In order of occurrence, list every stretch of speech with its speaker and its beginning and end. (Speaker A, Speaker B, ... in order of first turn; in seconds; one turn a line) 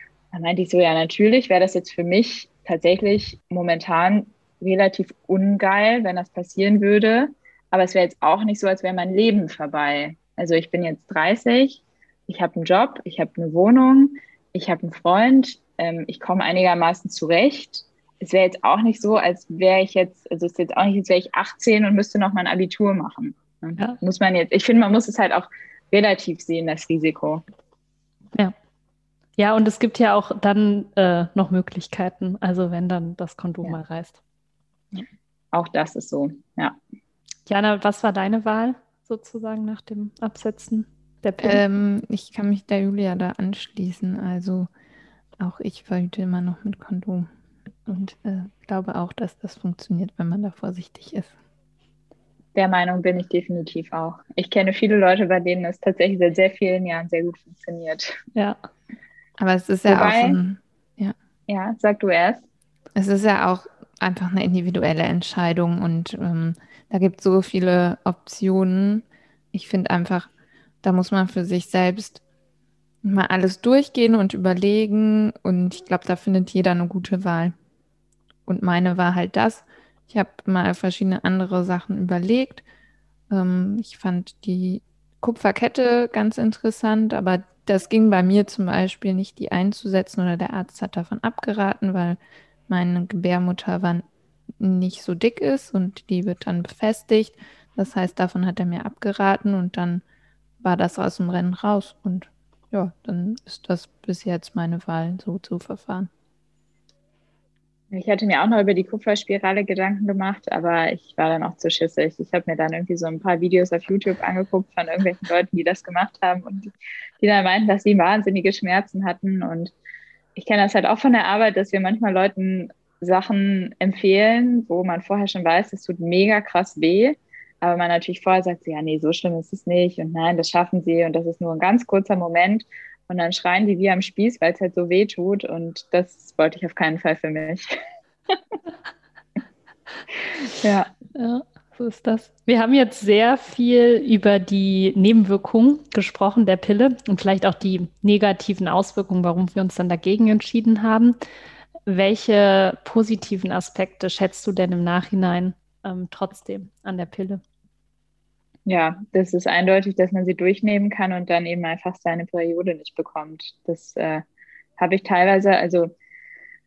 Speaker A: 0.3-27.4
Speaker B: 29.4-34.2
Speaker A: 34.9-36.8
Speaker B: 37.5-41.6
Speaker C: 41.4-44.7
Speaker C: 45.4-47.3
Speaker C: 47.9-51.3
Speaker A: 52.5-58.2
Speaker C: 59.4-61.1
Speaker A: 59.9-60.4
Speaker A: 61.5-62.4
Speaker C: 63.0-70.3
Speaker C: 70.8-72.2
Speaker C: 73.0-77.5
Speaker C: 78.5-82.6
Speaker C: 83.3-92.2
Speaker C: 92.7-94.0
Speaker C: 94.6-100.0
Speaker C: 100.6-106.1
Speaker A: 107.9-119.7
Speaker A: 120.3-137.8
Speaker A: 140.6-140.9
Speaker B: 141.2-151.2
Speaker B: 151.9-157.4
Speaker A: 158.7-164.2
Speaker A: 164.8-165.9